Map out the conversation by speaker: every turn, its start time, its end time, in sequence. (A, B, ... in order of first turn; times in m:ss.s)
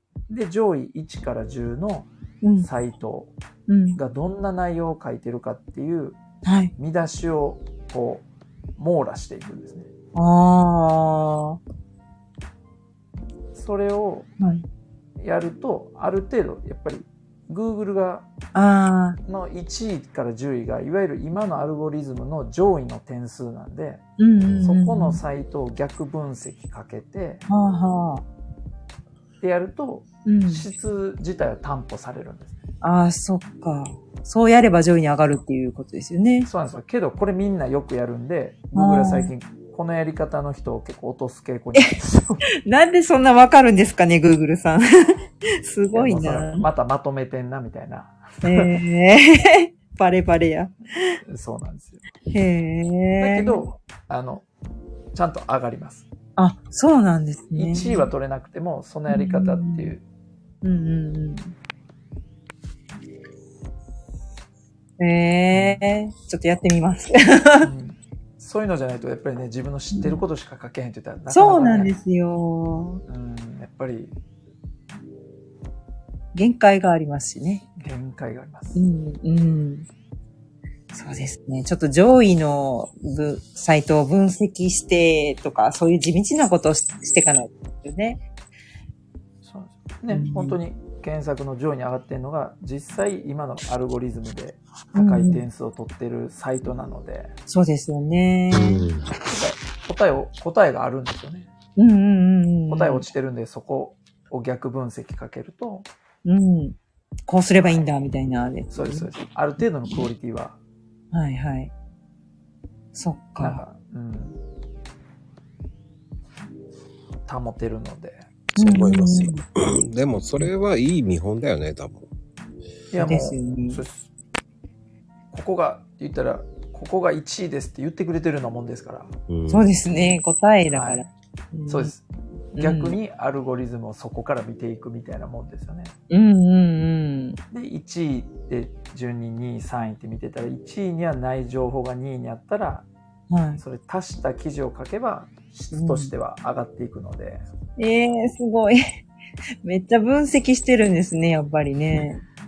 0:00.3-0:02.1 A
0:02.4-0:02.7 B
0:02.6-0:03.3 A
0:03.7-0:04.0 B
0:03.9-0:06.2 A
0:06.4-0:06.7 B
0:06.8-0:08.2 A
0:08.8-0:09.9 A
0:10.1-0:11.6 B
0:13.5-0:14.3 A
0:14.4-0:14.6 B
0:15.2-0:18.3 A
0:18.5-0:19.2 B
0:19.2-0:24.0 A
0:24.2-0:25.2 B
0:24.6-0:27.4 A
0:27.5-0:28.2 B
0:29.4-0:32.6 A
0:30.2-0:30.6 B
0:32.8-0:36.5 B
0:36.4-0:42.4 A
0:38.7-0:39.3 B
0:42.6-0:46.6 B
0:45.9-0:48.7 A
0:48.4-0:51.2 B
0:51.2-0:52.0 A
0:52.3-0:53.7 B
0:53.2-0:54.4 A
0:55.1-0:56.1 A
0:56.4-0:58.1 B
0:57.5-1:00.0 A
0:59.1-0:59.9 B
1:00.6-1:01.5 B
1:05.0-1:07.7 B
1:05.5-1:05.8 A
1:07.6-1:11.9 A
1:09.9-1:10.2 B
1:11.3-1:13.0 B
1:13.1-1:14.1 A
1:16.3-1:17.7 B
1:17.8-1:18.8 A
1:18.7-1:19.9 B
1:20.9-1:28.2 B
1:29.4-1:37.3 A
1:30.1-1:30.6 B
1:34.9-1:35.4 B
1:37.5-1:38.8 B
1:38.5-1:39.1 C
1:39.2-1:41.5 A
1:41.8-1:43.1 B
1:42.7-1:45.8 A
1:46.2-1:46.8 B
1:47.3-1:49.1 B
1:47.6-1:47.8 A
1:48.7-1:50.6 A
1:51.1-1:51.7 B
1:52.9-1:53.6 B
1:53.4-1:54.4 A
1:57.2-1:58.3 A
1:58.5-2:02.1 C
1:58.6-1:59.4 B
2:02.9-2:04.1 A
2:03.0-2:03.8 B
2:05.3-2:09.1 A
2:09.3-2:09.7 C
2:09.5-2:11.9 B
2:10.7-2:11.0 A
2:11.7-2:15.9 A
2:12.6-2:13.0 B
2:16.1-2:17.4 B
2:17.5-2:22.9 A
2:23.3-2:23.6 B
2:23.6-2:27.4 A
2:25.7-2:26.1 B
2:27.8-2:28.8 B
2:29.6-2:32.2 B